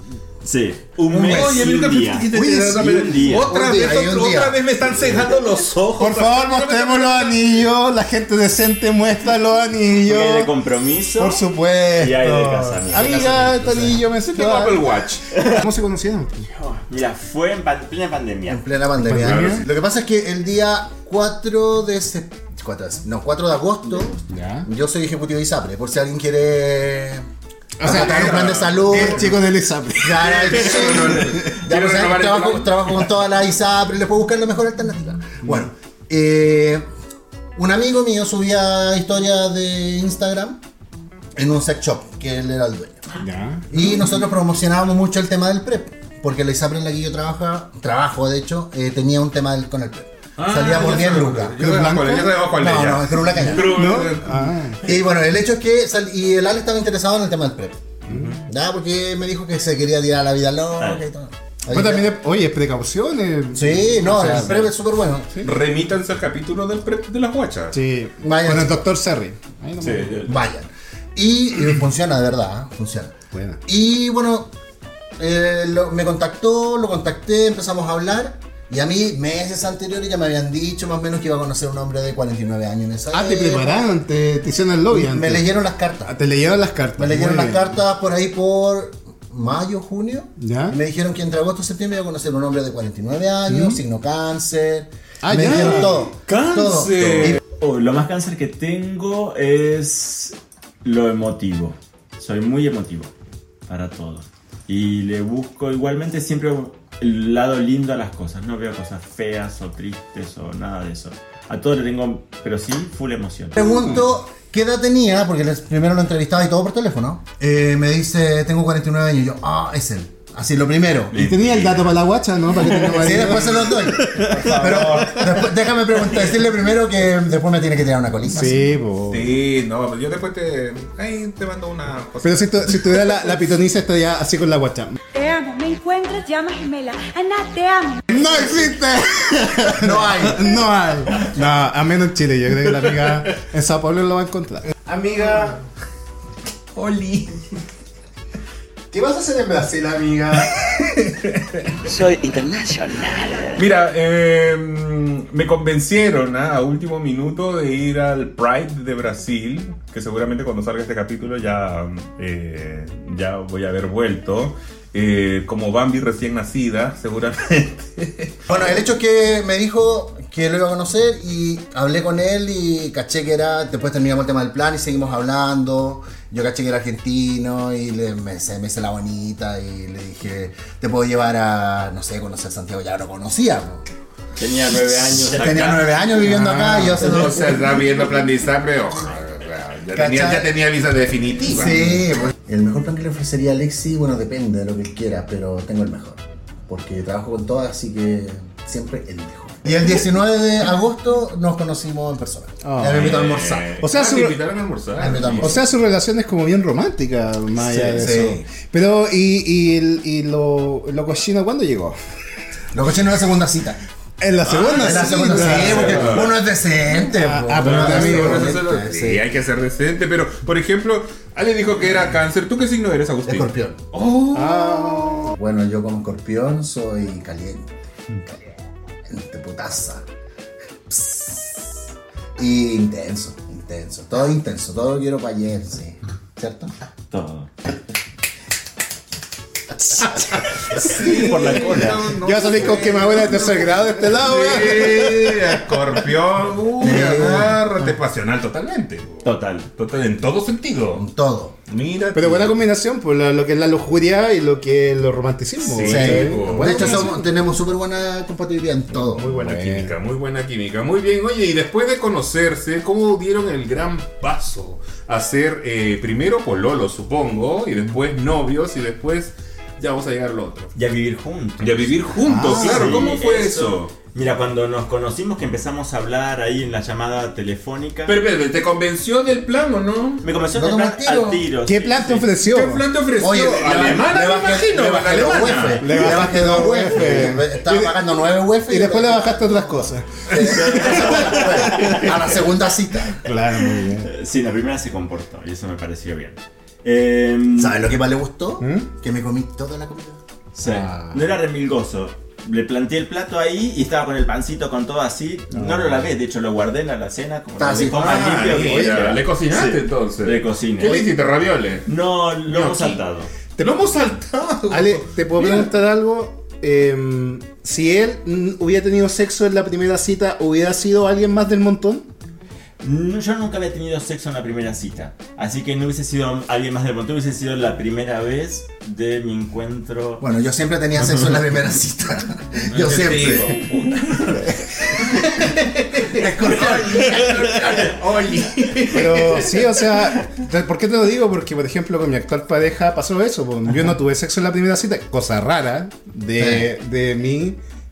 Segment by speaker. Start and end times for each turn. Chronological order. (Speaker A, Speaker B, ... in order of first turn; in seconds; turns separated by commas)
Speaker A: 0.4-3.5, Speaker B: 1.1-7.4, Speaker C: 2.3-4.6, Speaker A: 5.6-6.1, Speaker D: 6.0-10.5, Speaker A: 10.0-11.4, Speaker D: 11.1-16.5, Speaker A: 11.9-13.4, Speaker C: 13.1-13.9, Speaker B: 14.0-15.2, Speaker A: 15.3-15.6, Speaker A: 16.5-18.6, Speaker C: 18.5-27.2, Speaker D: 19.0-19.7, Speaker B: 19.2-19.6, Speaker D: 24.3-24.7, Speaker D: 27.8-31.3, Speaker C: 27.8-29.4, Speaker B: 27.8-29.3, Speaker C: 30.0-36.8, Speaker B: 30.2-33.1, Speaker C: 37.5-40.6, Speaker C: 41.4-43.1, Speaker D: 43.2-43.7, Speaker C: 43.7-51.6, Speaker B: 50.4-54.7, Speaker D: 51.6-52.4, Speaker C: 52.5-53.8, Speaker D: 53.6-54.8, Speaker C: 54.8-57.8, Speaker B: 58.0-58.4, Speaker D: 58.1-58.3, Speaker C: 58.4-62.1, Speaker A: 60.8-61.0, Speaker D: 61.7-64.7, Speaker C: 63.5-65.4, Speaker B: 65.4-67.8, Speaker D: 67.7-70.2, Speaker C: 68.2-68.9, Speaker B: 69.8-70.2, Speaker C: 70.2-73.1, Speaker D: 73.3-73.6, Speaker C: 73.7-74.5, Speaker C: 75.2-83.8, Speaker D: 83.1-85.5, Speaker C: 84.9-86.1, Speaker D: 86.1-87.6, Speaker C: 87.0-97.4, Speaker D: 90.4-90.8, Speaker D: 93.5-93.8, Speaker D: 95.2-96.0, Speaker B: 95.5-97.4, Speaker A: 97.5-103.1, Speaker A: 103.7-113.8, Speaker C: 113.5-121.2, Speaker A: 121.1-121.9, Speaker D: 121.1-125.5, Speaker A: 122.5-123.3, Speaker C: 122.8-128.7, Speaker A: 123.8-124.5, Speaker B: 124.6-124.9, Speaker D: 128.3-129.3, Speaker B: 129.1-133.4, Speaker D: 132.2-135.0, Speaker E: 135.1-138.2, Speaker D: 138.1-145.6, Speaker C: 139.7-140.5, Speaker B: 146.7-147.3, Speaker D: 148.9-150.8, Speaker B: 150.6-151.4, Speaker A: 151.9-153.6, Speaker B: 153.5-168.6, Speaker C: 168.5-183.8, Speaker A: 184.3-185.9, Speaker C: 184.9-187.8, Speaker D: 186.2-187.1, Speaker B: 187.0-191.9, Speaker C: 189.9-190.5, Speaker C: 191.5-203.7, Speaker D: 202.6-203.2, Speaker B: 202.8-205.6, Speaker D: 203.8-204.4, Speaker C: 205.0-205.6, Speaker D: 205.4-212.0, Speaker C: 207.6-208.4, Speaker C: 212.7-213.8, Speaker D: 214.2-216.3, Speaker B: 214.4-216.4, Speaker C: 214.8-219.2, Speaker D: 217.0-218.5, Speaker B: 217.5-225.3, Speaker C: 223.3-223.8, Speaker D: 224.3-225.3, Speaker C: 225.3-227.7, Speaker C: 229.1-230.0, Speaker C: 230.9-231.7, Speaker C: 232.4-236.7, Speaker A: 237.1-237.5, Speaker B: 240.7-251.0, Speaker A: 240.8-242.1, Speaker D: 241.0-241.6, Speaker D: 242.1-245.8, Speaker C: 246.8-247.6, Speaker A: 249.2-249.7, Speaker C: 250.9-251.5, Speaker B: 251.7-252.6, Speaker D: 252.1-257.2, Speaker B: 255.6-257.1, Speaker C: 255.8-259.3, Speaker B: 259.1-270.7, Speaker D: 259.2-259.9, Speaker A: 270.7-278.1, Speaker B: 271.6-273.9, Speaker D: 272.2-273.1, Speaker B: 278.1-280.2, Speaker A: 280.2-282.3, Speaker C: 280.5-281.5, Speaker D: 281.6-282.9, Speaker B: 282.4-286.0, Speaker C: 283.2-293.2, Speaker D: 285.8-288.0, Speaker D: 288.7-292.1, Speaker A: 290.3-292.2, Speaker D: 293.1-294.1, Speaker A: 293.5-297.8, Speaker C: 297.5-300.2, Speaker D: 298.6-298.9, Speaker A: 300.5-311.0, Speaker D: 300.6-301.2, Speaker D: 305.5-306.0, Speaker C: 307.6-308.9, Speaker B: 307.8-311.9, Speaker D: 308.6-309.0, Speaker A: 311.9-313.3, Speaker B: 312.4-313.0, Speaker B: 313.6-315.7, Speaker D: 314.7-322.1, Speaker A: 322.8-330.2, Speaker C: 330.2-333.6, Speaker B: 332.7-334.4, Speaker B: 334.9-339.5, Speaker C: 336.0-337.9, Speaker A: 336.6-337.9, Speaker D: 338.9-347.6, Speaker A: 339.9-340.2, Speaker C: 346.4-346.7